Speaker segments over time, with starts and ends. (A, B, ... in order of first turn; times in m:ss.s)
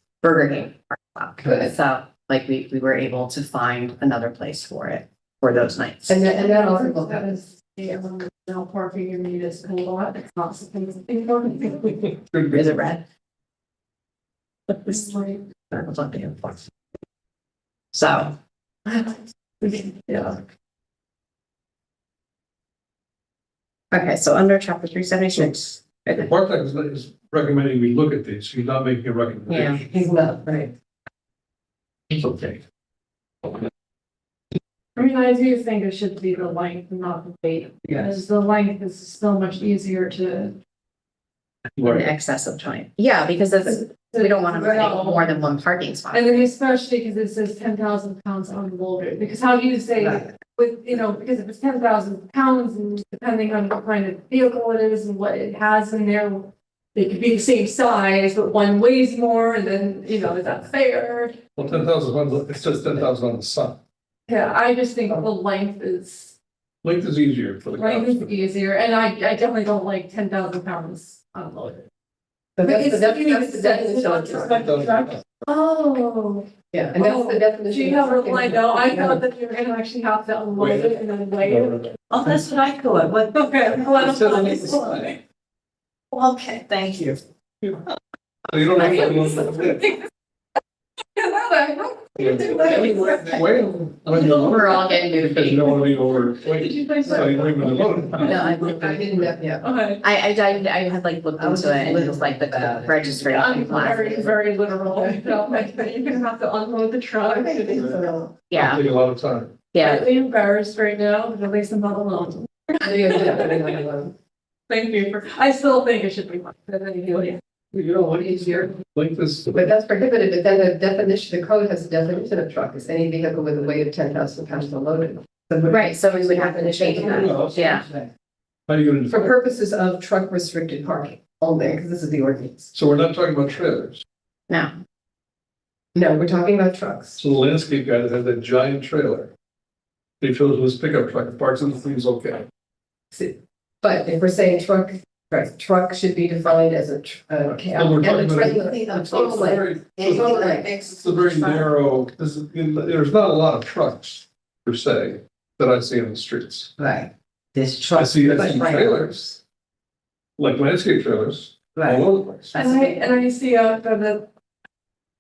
0:00.2-0:06.2 A
0:01.4-0:01.8 B
0:06.1-0:07.4 B
0:06.3-0:12.0 C
0:12.2-0:12.8 D
0:12.5-0:13.0 A
0:14.7-0:16.6 A
0:15.0-0:15.4 C
0:17.9-0:18.4 A
0:19.7-0:20.4 C
0:23.9-0:26.3 A
0:26.1-0:29.9 D
0:29.5-0:29.8 A
0:29.9-0:30.7 B
0:32.1-0:32.6 D
0:35.0-0:40.6 C
0:41.8-0:42.1 D
0:41.8-0:46.4 A
0:44.0-0:45.3 C
0:46.1-1:01.4 C
1:01.6-1:03.8 D
1:04.3-1:06.3 C
1:06.8-1:08.4 D
1:07.8-1:11.8 C
1:12.6-1:14.7 B
1:12.6-1:16.5 C
1:14.6-1:15.2 D
1:16.7-1:19.2 B
1:17.0-1:22.0 C
1:20.6-1:22.4 D
1:22.4-1:23.2 E
1:23.3-1:25.2 C
1:24.0-1:25.2 D
1:26.5-1:27.1 E
1:28.5-1:29.9 D
1:28.8-1:29.8 C
1:31.2-1:33.4 C
1:32.2-1:38.4 D
1:34.2-1:35.7 A
1:36.4-1:38.6 C
1:38.2-1:39.6 B
1:38.3-1:39.1 A
1:39.6-1:40.0 C
1:40.0-1:44.3 A
1:41.4-1:43.2 E
1:43.2-1:48.1 C
1:47.4-1:48.2 B
1:48.5-1:48.8 A
1:48.5-1:49.6 D
1:49.7-1:50.1 A
1:49.8-1:53.8 C
1:52.8-1:54.1 B
1:54.7-1:57.4 C
1:57.7-1:59.6 D
1:59.5-2:07.9 B
2:05.7-2:07.9 A
2:07.1-2:07.6 D
2:08.7-2:09.3 D
2:09.1-2:12.7 B
2:12.7-2:14.0 D
2:14.5-2:14.7 A
2:16.0-2:17.2 B
2:17.2-2:19.3 D
2:20.2-2:22.5 D
2:23.1-2:30.9 B
2:27.5-2:28.4 D
2:28.1-2:30.9 E
2:29.6-2:30.3 D
2:30.9-2:36.7 D
2:36.8-2:39.0 E
2:38.0-2:39.4 D
2:40.4-2:42.6 D
2:41.7-2:43.0 E
2:42.6-2:44.3 C